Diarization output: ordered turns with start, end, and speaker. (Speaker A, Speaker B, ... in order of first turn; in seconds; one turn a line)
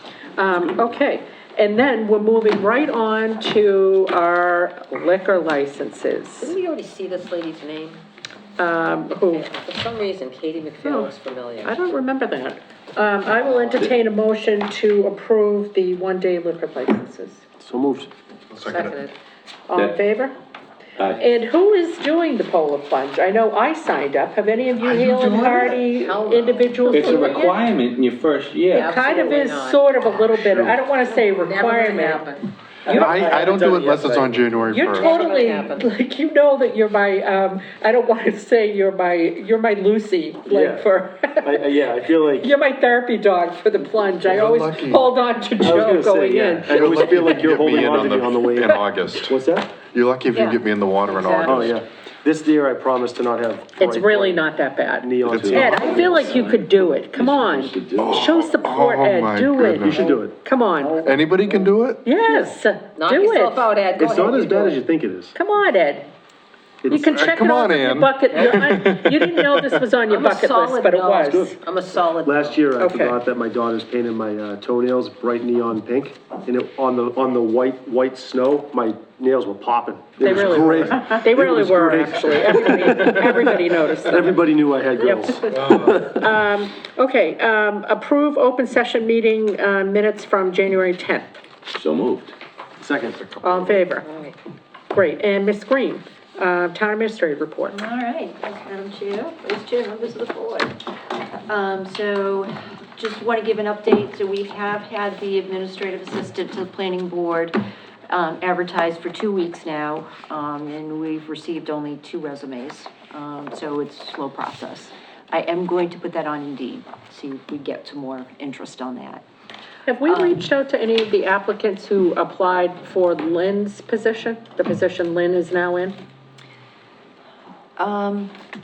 Speaker A: 0.4-6.6
Speaker B: 0.5-0.9
Speaker C: 6.4-8.0
Speaker A: 8.6-9.5
Speaker C: 9.3-11.7
Speaker A: 10.8-17.4
Speaker D: 17.6-18.1
Speaker E: 18.5-19.0
Speaker C: 18.6-19.1
Speaker A: 19.7-20.4
Speaker B: 19.8-20.0
Speaker B: 21.0-21.2
Speaker A: 21.2-27.6
Speaker E: 24.8-26.4
Speaker C: 25.9-27.4
Speaker B: 26.9-29.0
Speaker C: 28.7-30.2
Speaker A: 28.7-32.3
Speaker E: 30.1-30.8
Speaker C: 31.0-32.4
Speaker A: 32.9-33.3
Speaker D: 32.9-34.5
Speaker E: 32.9-35.1
Speaker C: 33.2-33.6
Speaker A: 34.7-41.6
Speaker C: 34.8-35.9
Speaker D: 40.5-40.9
Speaker D: 41.4-42.5
Speaker A: 42.4-47.4
Speaker E: 44.2-45.1
Speaker D: 45.6-49.8
Speaker E: 46.7-49.4
Speaker E: 49.9-51.8
Speaker C: 50.3-51.7
Speaker D: 51.4-54.5
Speaker A: 53.8-61.0
Speaker D: 55.0-56.3
Speaker E: 55.3-55.9
Speaker B: 55.4-58.4
Speaker E: 58.0-60.0
Speaker D: 59.8-60.4
Speaker C: 59.9-60.2
Speaker C: 60.8-61.6
Speaker E: 61.0-62.1
Speaker A: 62.0-63.7
Speaker C: 63.0-64.8
Speaker D: 64.0-65.3
Speaker A: 65.3-66.1
Speaker A: 66.9-71.6
Speaker E: 66.9-69.8
Speaker C: 68.3-68.7
Speaker C: 70.1-72.7
Speaker D: 71.2-71.6
Speaker D: 72.1-86.3
Speaker A: 72.8-73.2
Speaker A: 80.2-84.4
Speaker E: 80.3-80.9
Speaker A: 85.0-91.4
Speaker E: 85.5-86.0
Speaker B: 91.7-92.3
Speaker D: 92.8-93.4
Speaker A: 93.4-94.1
Speaker C: 94.0-94.3
Speaker A: 94.9-97.8
Speaker F: 97.7-100.8
Speaker F: 101.5-107.6
Speaker F: 108.1-119.2
Speaker A: 119.9-126.0
Speaker F: 120.0-120.4
Speaker F: 127.8-128.3